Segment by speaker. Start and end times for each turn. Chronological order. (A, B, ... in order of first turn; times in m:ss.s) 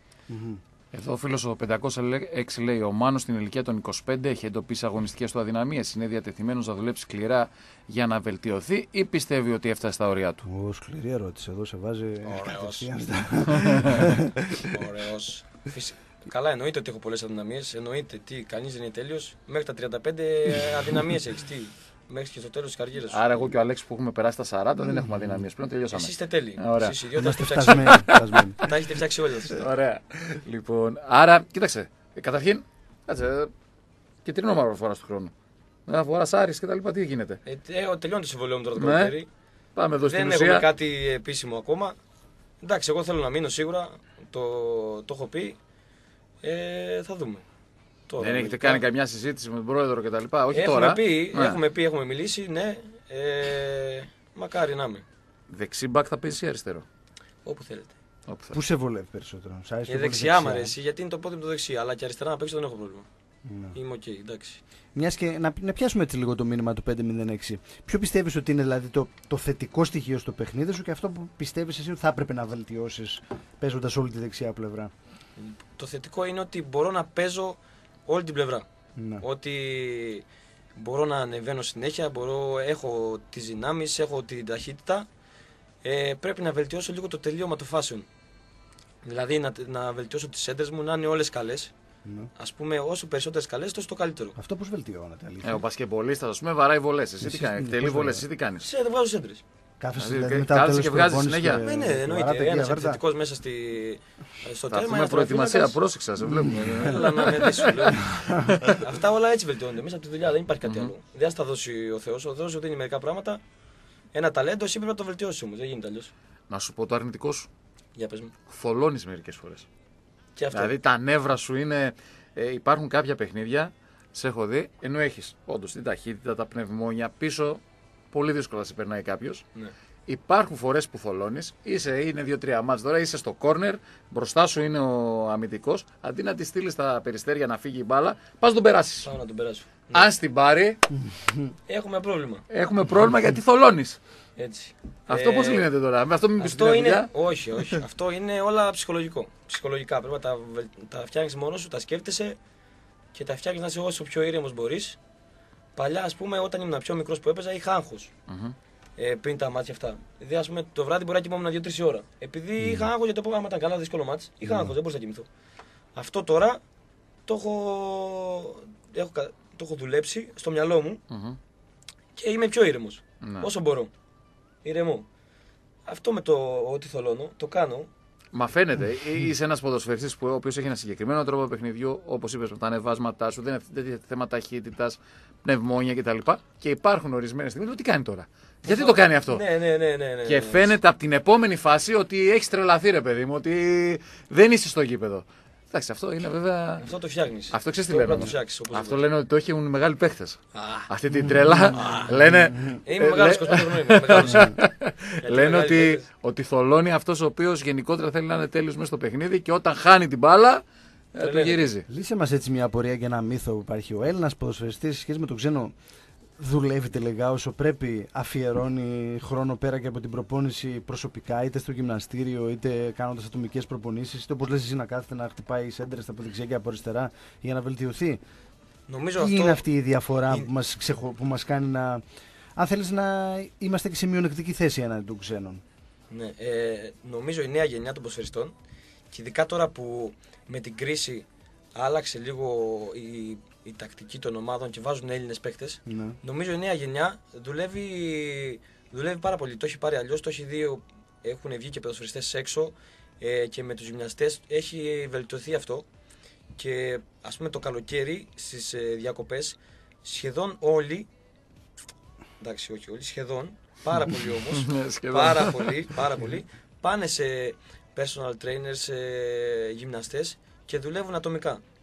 0:00.3-0:00.6 A
0:00.9-0:10.4 B
0:10.4-0:14.8 A
0:12.2-0:12.9 C
0:13.6-0:13.9 B
0:14.6-0:23.2 C
0:23.1-0:27.0 B
0:24.8-0:25.4 A
0:25.9-0:29.7 C
0:27.2-0:28.6 A
0:27.6-0:28.8 B
0:29.5-0:33.5 B
0:34.2-0:35.3 B
0:35.9-0:37.4 B
0:37.4-0:39.3 C
0:38.8-0:39.1 B
0:39.8-0:40.7 B
0:40.1-0:42.0 C
0:42.6-0:45.6 C
0:46.4-0:47.4 C
0:48.1-0:48.8 C
0:48.2-0:51.6 B
0:50.5-0:55.0 C
0:55.5-0:56.8 B
0:57.4-0:57.9 C
0:58.3-0:58.6 B
0:58.5-1:00.8 A
0:59.9-1:03.1 C
1:03.4-1:03.8 A
1:03.7-1:04.6 C
1:05.0-1:14.9 A
1:15.4-1:18.7 C
1:19.0-1:19.2 A
1:19.2-1:20.2 C
1:20.8-1:25.1 C
1:25.8-1:28.1 C
1:29.0-1:31.7 C
1:32.0-1:32.3 A
1:32.4-1:34.4 C
1:34.4-1:35.6 A
1:35.4-1:38.7 B
1:37.2-1:38.2 A
1:38.6-1:39.4 C
1:39.8-1:43.0 A
1:40.0-1:41.6 B
1:41.6-1:45.8 C
1:44.7-1:48.8 B
1:46.2-1:46.9 A
1:46.7-1:53.4 C
1:48.0-1:48.6 A
1:50.6-1:50.9 B
1:54.1-1:56.1 C
1:56.5-1:57.5 B
1:58.0-1:58.3 C
1:58.5-1:59.7 B
2:00.4-2:00.7 C
2:00.5-2:07.6 B
2:08.1-2:09.4 B
2:10.1-2:19.1 B
2:19.0-2:20.1 C
2:19.9-2:20.8 B
2:21.0-2:21.5 A
2:21.7-2:22.5 C
2:22.5-2:24.0 B
2:24.4-2:25.7 C
2:25.1-2:27.8 B
2:26.4-2:32.4 C
2:33.1-2:35.0 C
2:35.8-2:38.1 C
2:38.3-2:38.6 B
2:39.0-2:45.3 C
2:42.6-2:42.9 A
2:46.0-2:46.6 C
2:47.3-2:51.0 C
2:51.1-2:51.4 B
2:52.2-2:53.9 C
2:53.2-2:53.5 B
2:54.6-2:55.1 C
2:55.9-2:57.9 C
2:58.3-3:09.4 B
3:08.6-3:10.7 C
3:10.2-3:16.9 B
3:16.8-3:19.0 C
3:17.5-3:30.6 B
3:20.5-3:20.9 C
3:21.5-3:22.8 A
3:21.7-3:22.1 C
3:22.8-3:24.6 C
3:24.2-3:24.6 A
3:25.2-3:26.1 C
3:31.1-3:31.9 B
3:31.2-3:31.7 C
3:31.9-3:35.8 A
3:36.4-3:48.2 A
3:48.9-3:49.6 C
3:49.2-3:52.0 A
3:52.6-3:55.6 A
3:56.1-3:58.5 C
3:59.1-4:15.9 C
4:05.9-4:06.2 A
4:16.6-4:21.1 C
4:22.4-4:31.6 C
4:24.5-4:26.0 B